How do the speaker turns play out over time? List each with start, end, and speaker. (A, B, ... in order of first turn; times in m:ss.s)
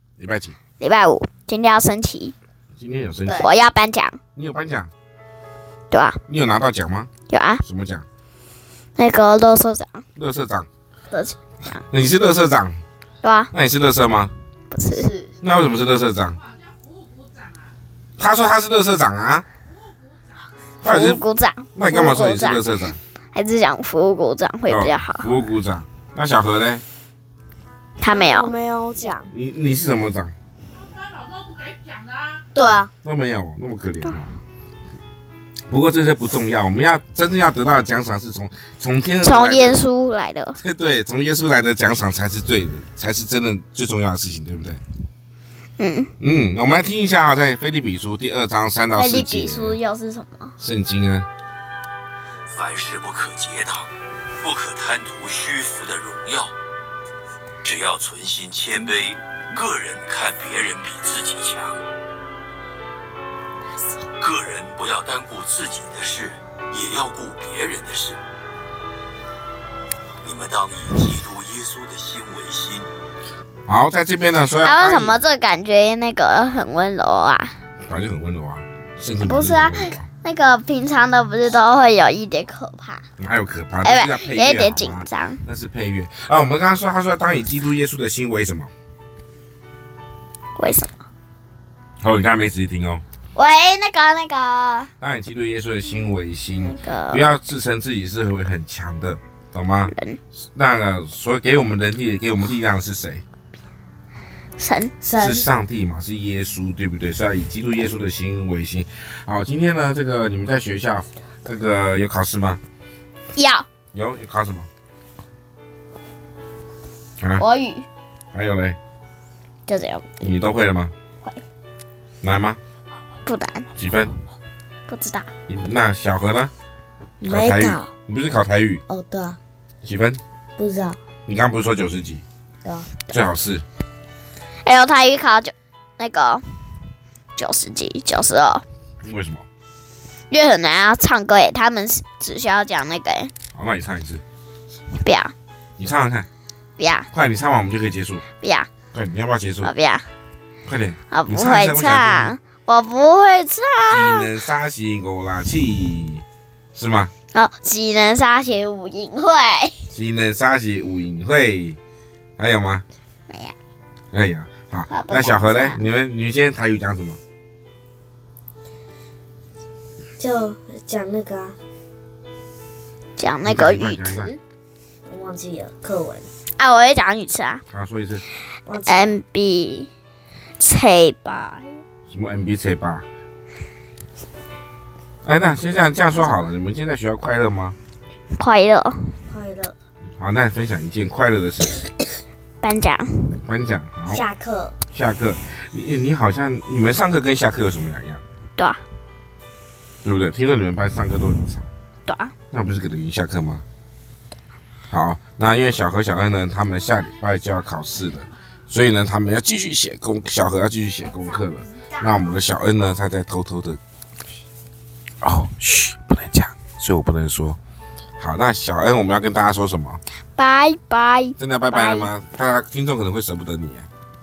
0:00.2-0:00.6 A
0:00.8-0:02.3 B
0:02.8-0:03.5 A
0:03.3-0:04.2 B
0:04.4-0:04.9 A
0:05.9-0:06.2 B
0:06.3-0:07.1 A
0:07.3-0:07.6 B
0:07.6-0:08.0 A
0:09.0-0:10.0 B
0:10.2-0:10.7 A
0:11.1-0:11.8 B
0:11.9-0:12.8 A
0:13.2-0:13.5 B
0:13.5-0:14.3 A
0:14.7-0:15.2 B
0:15.4-0:16.4 A
0:18.2-0:19.4 A
0:20.8-0:21.2 A
0:20.8-0:22.6 B
0:21.8-0:23.0 A
0:23.3-0:25.3 B
0:24.7-0:26.8 A
0:28.0-0:28.5 B
0:28.0-0:29.3 C
0:29.3-0:30.4 A
0:32.6-0:32.9 C
0:33.0-0:34.4 A
0:35.7-0:39.8 A
0:39.2-0:40.6 B
0:40.6-0:44.8 A
0:45.8-0:46.1 B
0:46.2-0:49.8 A
0:48.9-0:50.6 B
0:50.6-0:51.3 A
0:52.5-0:53.9 D
0:54.4-0:56.5 D
0:57.6-1:01.8 D
1:04.2-1:08.2 D
1:10.2-1:12.9 D
1:13.7-1:15.2 A
1:14.6-1:17.6 B
1:17.8-1:20.1 A
1:19.2-1:23.0 B
1:23.2-1:28.7 A
1:23.8-1:25.4 B
1:30.6-1:30.9 B
1:32.0-1:33.0 A
1:33.4-1:34.9 B
1:35.0-1:39.9 A
1:36.6-1:37.2 B
1:39.9-1:40.2 B
1:40.5-1:43.2 A
1:44.6-1:44.9 B
1:45.0-1:45.5 C
1:45.1-1:52.6 A
1:53.4-1:53.7 B
1:53.9-1:54.7 A
1:57.2-1:57.4 A
1:57.4-1:57.9 B
1:58.3-1:58.8 A
1:59.7-2:00.1 B
2:00.2-2:00.9 A
2:02.2-2:02.6 A
2:03.2-2:03.7 B
2:03.8-2:04.1 A
2:04.9-2:05.3 B
2:05.5-2:06.5 A
2:07.2-2:07.9 C
2:07.3-2:08.8 A
2:08.9-2:09.4 C
2:09.8-2:10.2 A
2:10.6-2:11.0 C
2:11.3-2:12.2 A
2:12.6-2:12.9 C
2:13.1-2:13.6 A
2:14.6-2:16.4 B
2:17.4-2:18.6 B
2:19.0-2:19.5 A
2:20.3-2:23.3 B
2:23.5-2:24.2 A
2:25.0-2:25.3 B
2:25.8-2:26.3 A
2:26.8-2:27.1 B
2:27.1-2:28.2 A
2:28.4-2:28.7 B
2:28.9-2:29.7 A
2:29.6-2:30.1 B
2:30.6-2:32.4 A
2:31.1-2:34.3 B
2:33.9-2:37.1 A
2:37.3-2:39.8 B
2:39.9-2:41.8 A
2:42.4-2:42.8 A
2:43.3-2:43.6 B
2:44.1-2:47.2 A
2:44.9-2:45.8 B
2:50.2-2:51.6 C
2:53.2-2:54.4 B
2:53.4-2:54.3 A
2:55.1-2:56.3 C
2:56.6-2:57.6 B
2:57.7-2:58.2 A
2:58.7-2:59.2 C
2:58.9-2:59.9 B
3:00.6-3:01.8 B
3:02.1-3:03.0 A
3:05.2-3:07.8 A
3:08.3-3:09.1 B
3:09.3-3:09.8 C
3:10.2-3:11.9 A
3:12.6-3:13.4 B
3:13.4-3:14.2 A
3:14.1-3:14.8 C
3:14.9-3:18.2 A
3:20.0-3:21.7 A
3:22.1-3:22.3 B
3:22.5-3:23.6 A
3:24.9-3:33.8 A
3:35.2-3:37.6 A
3:38.2-3:40.0 A
3:40.4-3:42.1 B
3:41.4-3:43.9 A